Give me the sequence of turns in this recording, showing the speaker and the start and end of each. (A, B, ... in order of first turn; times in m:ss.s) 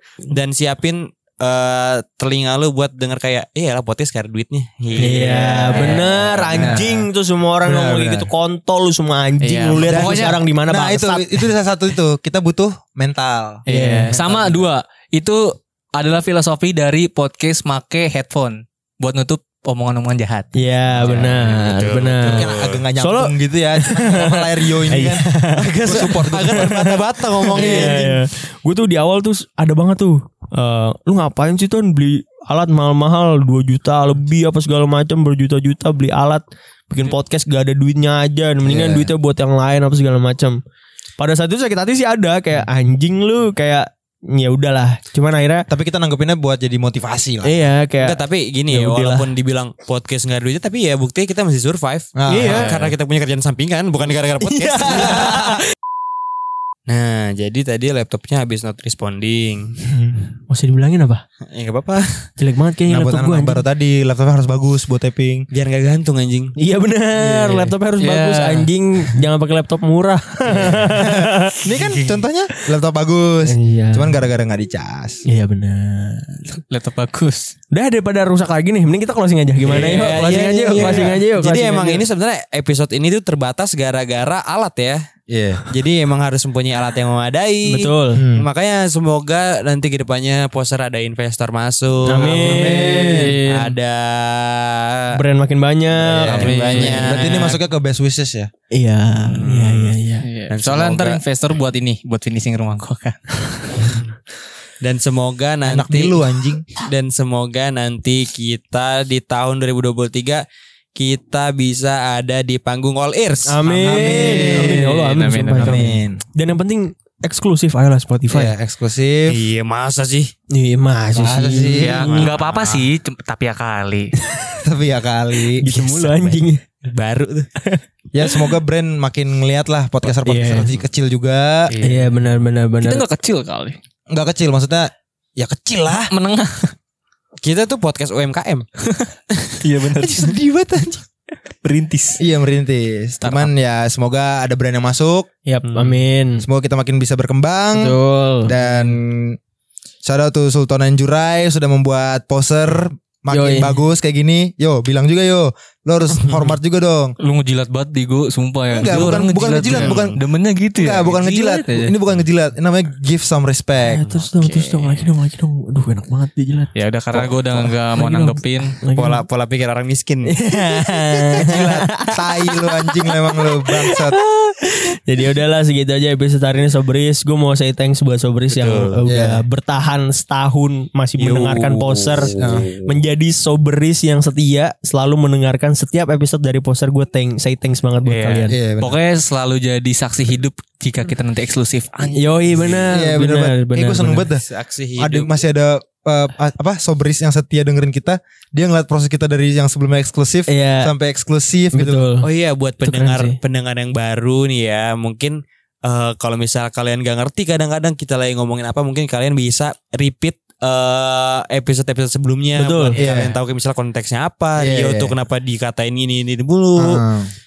0:00.3-0:06.8 A
0:05.0-0:11.2 B
0:05.7-0:06.1 C
0:06.6-0:07.0 D
0:07.6-0:08.3 D
0:09.4-0:10.4 C
0:09.8-0:14.7 D
0:13.7-0:20.5 C
0:13.7-0:14.1 B
0:20.5-0:40.6 B
0:21.0-0:22.8 A
0:22.2-0:25.2 D
0:25.6-0:28.2 A
0:25.8-0:26.8 D
0:27.5-0:28.0 D
0:38.6-0:39.1 D
0:41.2-0:45.7 B
0:45.7-0:47.5 D
0:47.4-0:49.3 B
0:48.0-0:55.6 A
0:52.2-0:52.7 D
0:52.4-0:52.9 C
0:54.6-0:55.5 B
0:54.9-0:55.4 D
0:56.9-0:59.9 A
1:00.5-1:01.2 B
1:01.5-1:02.3 A
1:02.4-1:03.6 B
1:02.9-1:05.5 D
1:05.5-1:06.5 A
1:06.6-1:11.6 B
1:08.0-1:08.7 C
1:10.6-1:15.2 D
1:13.4-1:14.2 B
1:15.2-1:16.4 B
1:16.5-1:17.5 C
1:17.7-1:22.0 B
1:19.7-1:25.1 A
1:19.7-1:21.2 D
1:25.3-1:25.6 D
1:25.7-1:35.2 A
1:27.6-1:28.2 B
1:28.1-1:28.5 D
1:32.0-1:33.3 B
1:32.3-1:33.2 D
1:32.7-1:33.8 C
1:35.1-1:37.2 B
1:36.0-1:37.6 A
1:36.1-1:38.5 D
1:36.3-1:37.2 C
1:38.7-1:40.2 B
1:39.2-1:40.0 A
1:40.2-1:44.0 C
1:40.5-1:41.2 A
1:44.8-1:46.2 A
1:45.6-1:46.6 D
1:46.8-1:54.1 A
1:53.4-1:58.5 B
1:53.8-1:54.9 D
1:53.9-1:55.9 C
1:55.6-1:56.2 D
1:58.3-1:59.4 D
1:59.3-2:00.3 A
2:00.5-2:02.2 B
2:01.1-2:02.3 D
2:01.8-2:02.9 A
2:02.0-2:04.1 C
2:04.3-2:04.6 B
2:04.6-2:05.7 D
2:05.6-2:06.6 B
2:05.7-2:07.5 A
2:07.6-2:08.4 B
2:08.1-2:11.7 D
2:10.2-2:10.7 B
2:11.7-2:12.2 C
2:11.8-2:13.0 B
2:12.8-2:13.8 C
2:14.1-2:16.1 D
2:16.1-2:16.7 C
2:17.4-2:18.6 A
2:18.8-2:20.3 C
2:20.0-2:21.0 D
2:21.6-2:22.2 C
2:22.2-2:25.3 D
2:23.2-2:23.5 C
2:25.4-2:26.4 B
2:26.4-2:29.4 D
2:27.7-2:28.5 B
2:28.6-2:28.9 C
2:30.0-2:37.1 D
2:33.3-2:33.8 B
2:37.2-2:41.9 C
2:38.7-2:40.2 D
2:38.8-2:40.1 A
2:40.8-2:44.0 D
2:43.8-2:49.2 B
2:44.4-2:45.1 C
2:46.7-2:48.8 C
2:48.9-2:50.4 A
2:50.2-3:08.6 B
2:51.3-2:54.2 D
2:58.5-2:59.0 A
2:59.0-2:59.4 D
3:01.2-3:02.4 A
3:02.4-3:02.7 D
3:08.0-3:12.2 C
3:08.5-3:09.0 D
3:12.1-3:14.3 B
3:12.5-3:12.9 A
3:12.9-3:14.4 D
3:14.4-3:15.3 A
3:15.0-3:22.0 D
3:20.5-3:20.9 B
3:21.7-3:22.3 B
3:22.2-3:37.0 A
3:22.8-3:23.4 B
3:32.6-3:33.0 B
3:33.0-3:33.4 D
3:34.6-3:35.1 D
3:36.8-3:37.3 D